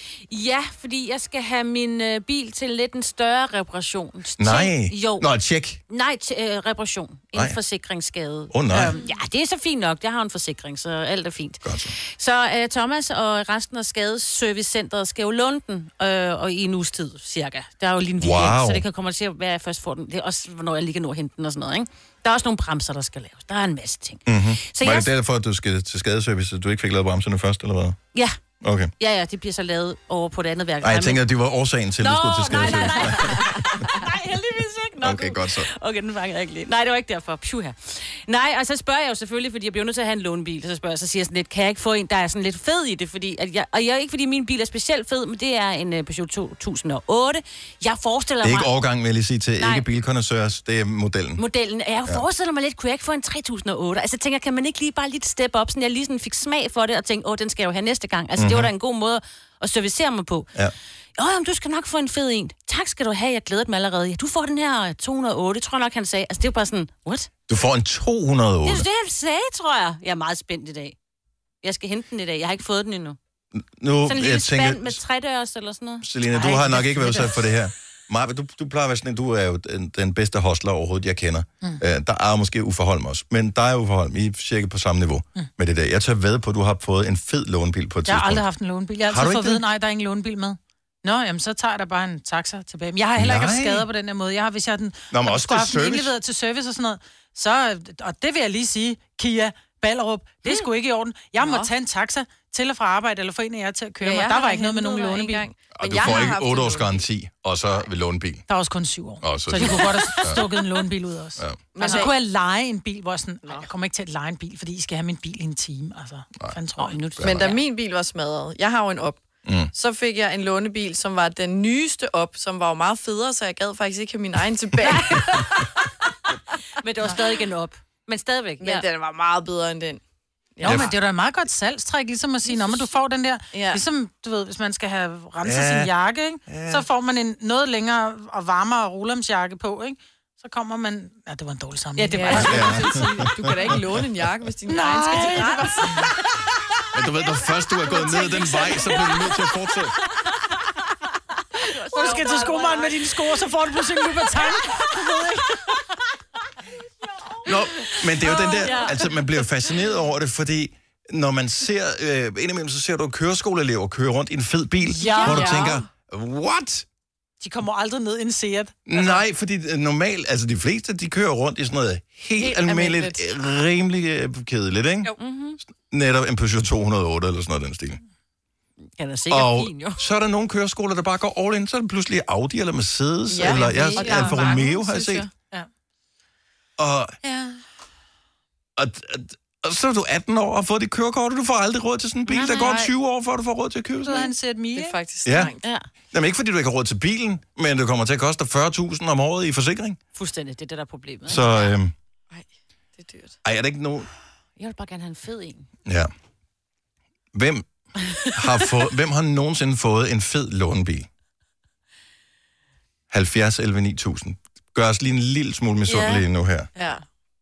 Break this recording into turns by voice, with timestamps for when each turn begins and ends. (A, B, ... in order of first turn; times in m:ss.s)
0:00.3-0:05.3 A
0:04.4-0:05.8 B
0:05.9-0:25.1 A
0:08.5-0:08.9 B
0:08.7-0:09.0 C
0:11.6-0:11.9 B
0:18.2-0:18.8 B
0:24.2-0:28.0 B
0:28.6-0:28.9 B
0:29.0-0:31.2 A
0:30.8-0:33.9 B
0:32.0-0:48.7 A
0:35.0-0:35.7 B
0:48.4-0:51.4 B
0:49.6-0:49.8 A
0:51.4-1:00.5 A
0:58.4-0:58.7 B
1:01.2-1:07.3 A
1:07.5-1:08.8 B
1:08.6-1:11.0 A
1:11.6-1:13.2 A
1:13.5-1:15.0 B
1:14.0-1:16.0 A
1:16.0-1:28.4 B
1:16.3-1:17.3 C
1:28.1-1:45.4 C
1:29.1-1:29.6 B
1:33.2-1:33.8 B
1:35.1-1:36.1 B
1:41.4-1:41.7 D
1:44.0-1:47.0 D
1:44.3-1:45.3 A
1:45.7-1:48.4 B
1:48.5-1:57.0 C
1:49.2-1:50.4 B
1:51.7-1:52.2 D
1:51.8-1:52.1 A
1:56.8-1:57.6 A
1:57.2-1:57.4 B
1:57.2-1:59.2 D
1:59.4-1:59.7 B
1:59.7-2:05.7 D
2:06.7-2:08.9 A
2:08.6-2:10.0 D
2:10.6-2:10.9 D
2:10.6-2:10.9 B
2:10.6-2:22.8 C
2:12.5-2:12.8 D
2:13.5-2:13.8 D
2:15.4-2:15.9 B
2:16.5-2:16.8 B
2:22.0-2:22.8 A
2:22.1-2:26.1 D
2:22.4-2:23.3 B
2:24.7-2:26.1 C
2:26.9-2:29.9 B
2:27.9-2:28.9 A
2:31.6-2:33.1 A
2:31.9-2:35.2 C
2:32.0-2:32.4 D
2:34.4-2:35.4 A
2:37.4-2:46.8 B
2:38.1-2:39.1 A
2:45.0-2:45.6 C
2:45.0-2:45.4 A
2:45.1-2:45.8 D
2:47.4-2:49.1 C
2:48.9-2:55.1 B
2:52.4-2:53.3 D
2:55.2-2:55.6 A
2:55.8-2:58.0 B
2:59.0-3:00.0 A
2:59.3-3:05.2 B
3:03.3-3:05.3 D
3:03.4-3:04.4 A
3:06.8-3:07.1 B
3:07.2-3:07.6 C
3:08.8-3:14.2 B
3:12.3-3:12.9 A
3:14.0-3:15.0 C
3:14.0-3:15.7 D
3:15.2-3:15.5 B
3:15.6-3:15.9 A
3:16.1-3:20.0 B
3:20.1-3:21.7 A
3:21.2-3:21.9 B
3:22.3-3:23.4 D
3:23.4-3:24.1 B
3:24.6-3:25.7 A
3:25.8-3:26.1 B
3:27.3-3:27.7 B
3:28.3-3:31.1 B
3:33.1-3:36.7 B
3:35.9-3:36.2 A
3:36.8-3:37.0 D